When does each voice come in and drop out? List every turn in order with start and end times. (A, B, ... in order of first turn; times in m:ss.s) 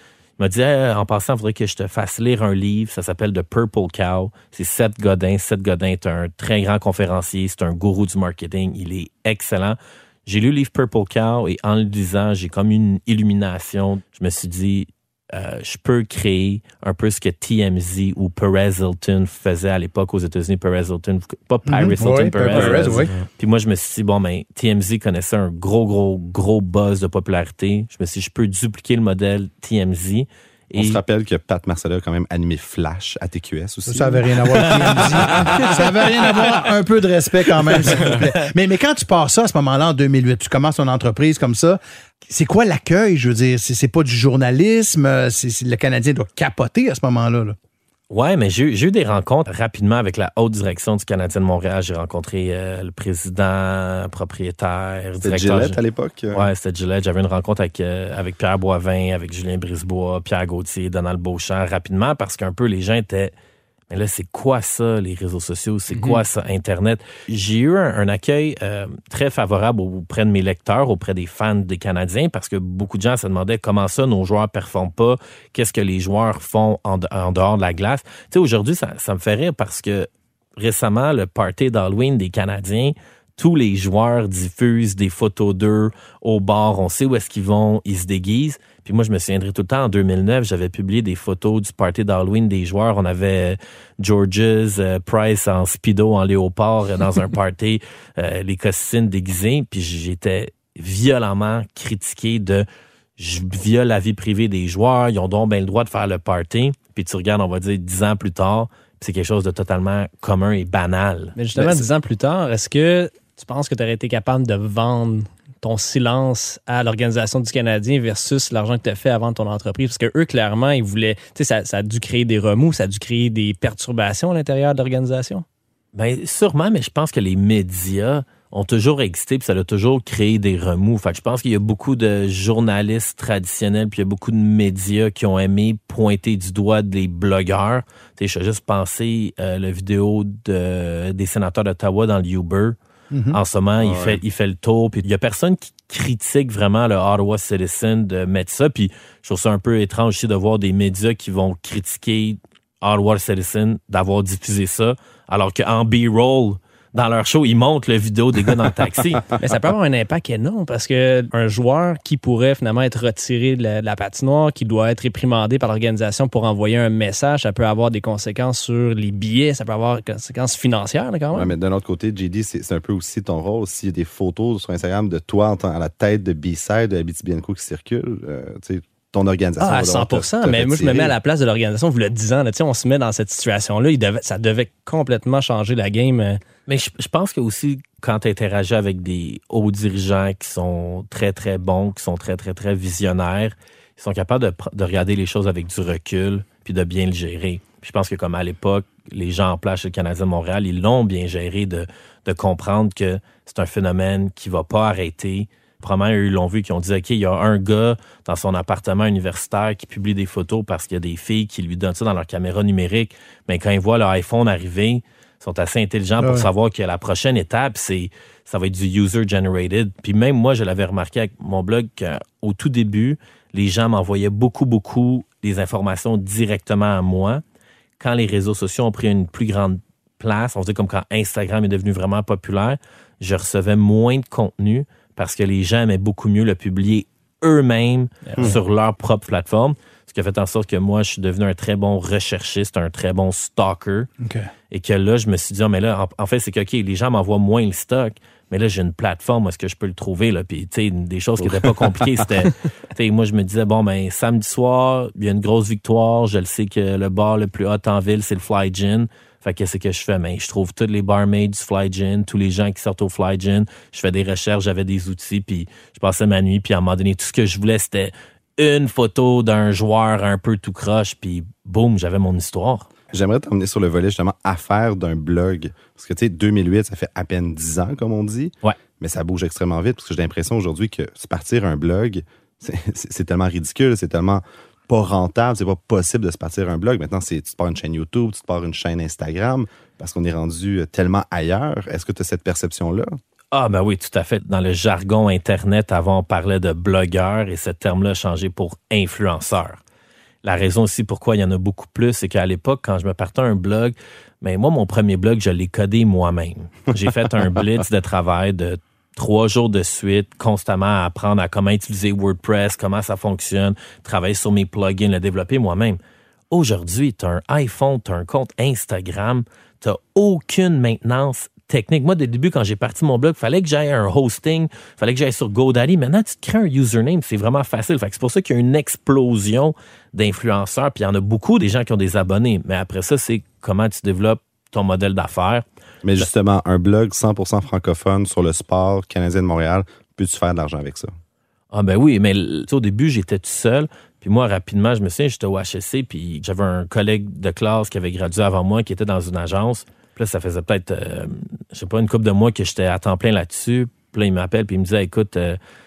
0:00.4-0:31.0 A
0:21.7-0:23.1 B
0:30.8-0:36.3 C
0:33.9-0:47.6 B
0:48.1-0:55.8 A
0:55.2-0:56.5 C
0:56.3-1:03.3 A
1:03.9-1:42.7 A
1:43.2-1:51.8 A
1:51.4-2:05.4 D
2:05.9-2:22.8 A
2:23.1-2:23.4 B
2:23.3-2:39.3 A
2:23.8-2:24.2 C
2:39.4-2:51.5 D
2:51.3-3:01.1 C
2:59.6-3:06.4 D
3:06.7-3:47.4 A
3:36.2-3:36.5 B
3:48.0-4:04.1 A
4:04.2-4:04.5 B
4:04.7-4:32.9 A
4:11.4-4:12.4 C
4:33.1-4:53.1 C
4:53.5-4:59.8 A
5:00.4-5:16.0 A
5:16.5-5:35.6 A
5:36.0-5:41.1 C
5:41.7-5:55.6 A